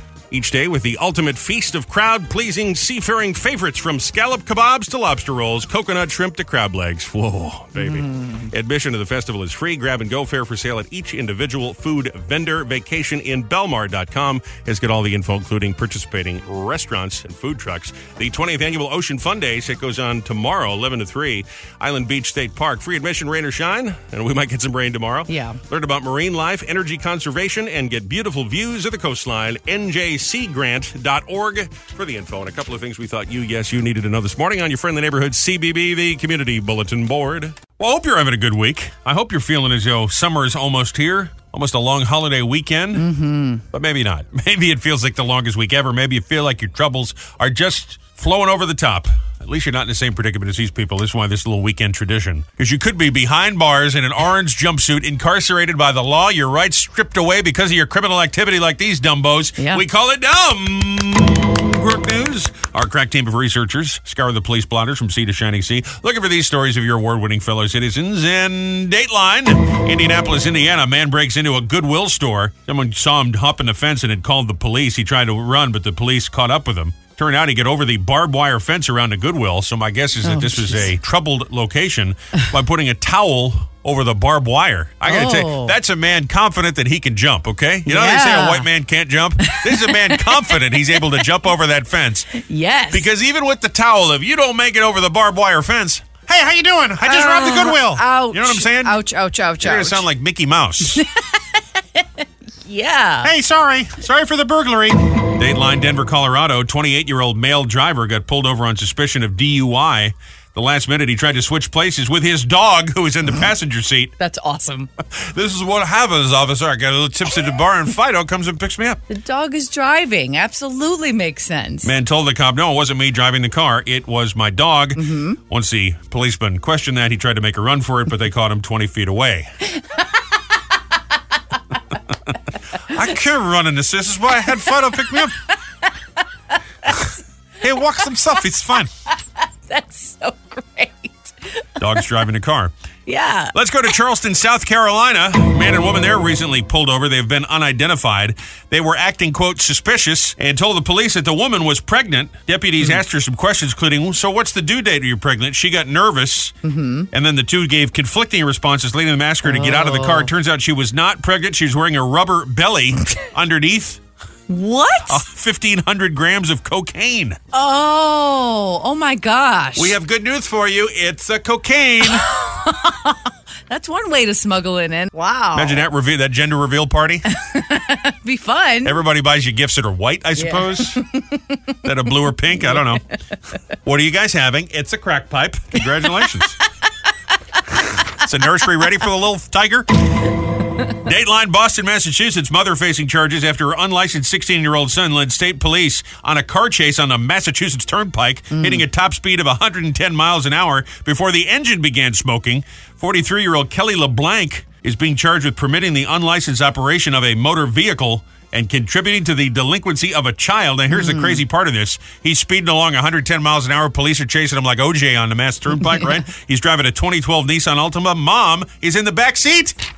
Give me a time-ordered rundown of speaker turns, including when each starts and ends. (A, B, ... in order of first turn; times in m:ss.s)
0:00.3-0:43.0 A
0:07.8-0:08.5 B
0:25.3-0:25.6 B
0:42.9-0:43.6 B
0:43.7-1:32.4 A
0:59.6-0:59.8 B
1:20.2-1:20.9 B
1:25.0-1:25.7 B
1:27.8-1:28.7 B
1:29.4-1:31.0 B
1:32.3-1:33.1 B
1:32.9-1:38.9 A
1:37.0-1:40.0 B
1:39.6-1:41.0 A
1:40.9-1:41.4 B
1:42.6-1:43.3 B
1:43.2-1:54.1 A
1:54.2-1:54.9 B
1:55.1-1:59.0 A
1:59.1-2:01.9 B
2:01.8-2:09.5 A
2:05.0-2:05.4 B
2:09.7-2:10.0 B
2:12.9-2:15.4 A
2:16.9-2:17.1 B
2:17.6-2:18.9 A
2:19.7-2:22.0 B
2:21.8-2:22.7 A
2:23.1-2:23.5 B
2:23.5-2:36.5 A
2:36.6-2:37.1 B
2:37.1-2:44.0 A
2:39.4-2:40.3 B
2:44.5-2:45.2 B
2:45.1-2:47.4 A
2:47.5-2:50.0 B
2:49.8-2:52.2 A
2:52.1-2:55.9 B
2:55.5-2:57.2 A
2:57.3-2:59.0 B
2:58.8-3:01.0 A
3:00.4-3:01.6 B
3:01.8-3:03.0 A
3:02.3-3:03.1 B
3:03.8-3:06.6 A
3:08.2-3:09.9 A
3:11.0-3:39.8 A
3:18.5-3:18.8 B
3:30.9-3:31.4 B